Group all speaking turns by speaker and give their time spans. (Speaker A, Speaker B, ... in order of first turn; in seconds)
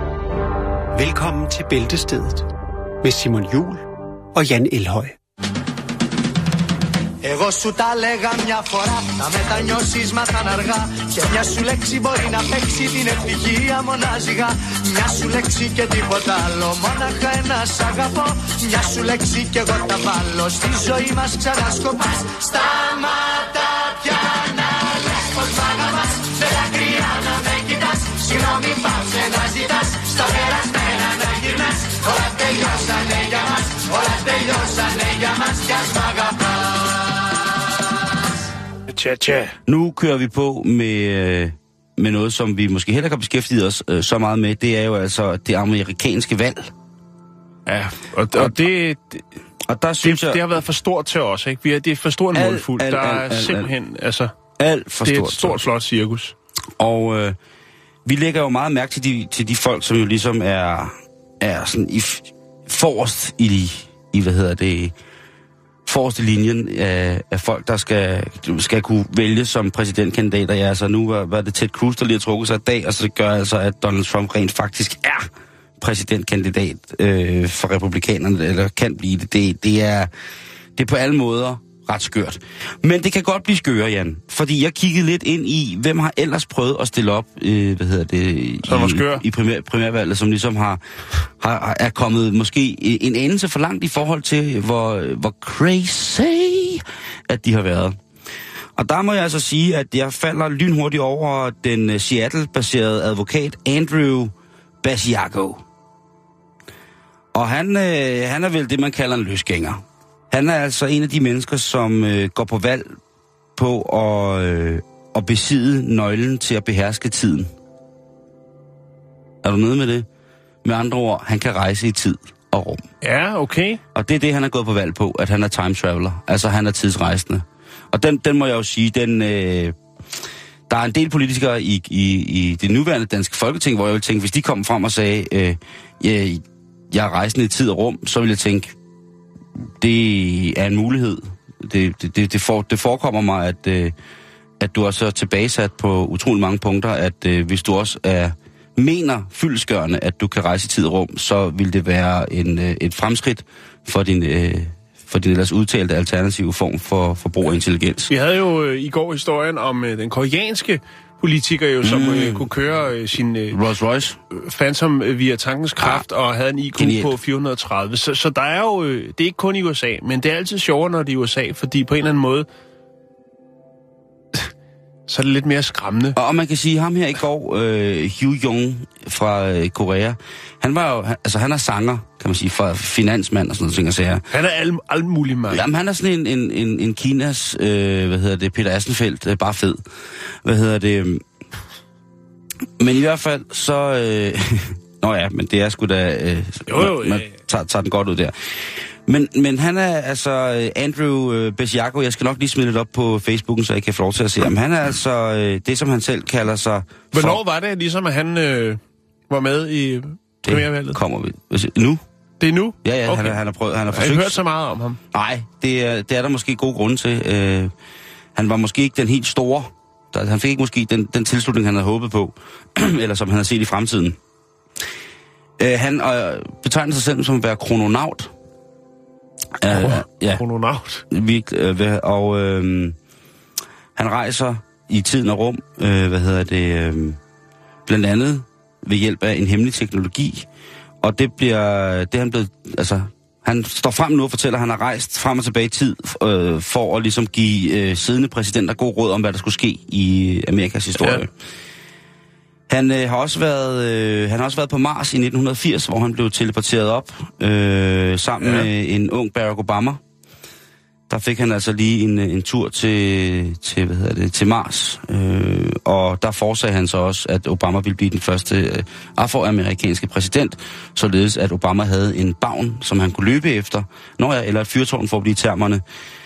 Speaker A: 0.9-2.5, 3.0-5.2
Speaker B: 7.2-36.6
Speaker C: 38.9-39.5, 47.6-49.2, 50.0-54.3, 55.0-56.3, 88.6-89.2, 123.0-123.8, 158.1-163.6, 164.3-172.5, 175.1-176.2, 184.3-185.7, 196.7-197.3, 207.1-211.0, 212.4-213.4, 213.9-215.0, 229.7-231.0, 251.0-251.2, 258.4-258.7
Speaker D: 39.7-46.7, 49.6-50.4, 52.3-53.7, 54.6-55.6, 56.8-57.4, 58.0-64.9, 65.8-80.1, 80.8-98.0, 98.8-105.6, 107.3-113.0, 113.5-117.5, 119.4-120.1, 120.6-122.8, 123.9-129.8, 130.7-138.7, 139.7-143.9, 144.6-158.1, 161.8-162.5, 163.5-164.2, 166.8-167.1, 176.1-184.2, 185.5-189.8, 190.4-191.2, 192.8-207.4, 210.4-212.0, 212.8-214.4, 215.1-217.7, 218.3-224.2, 225.6-228.3, 229.6-230.4, 231.1-232.9, 233.9-237.2, 237.8-240.5, 241.0-251.3, 252.7-260.0, 261.1-275.8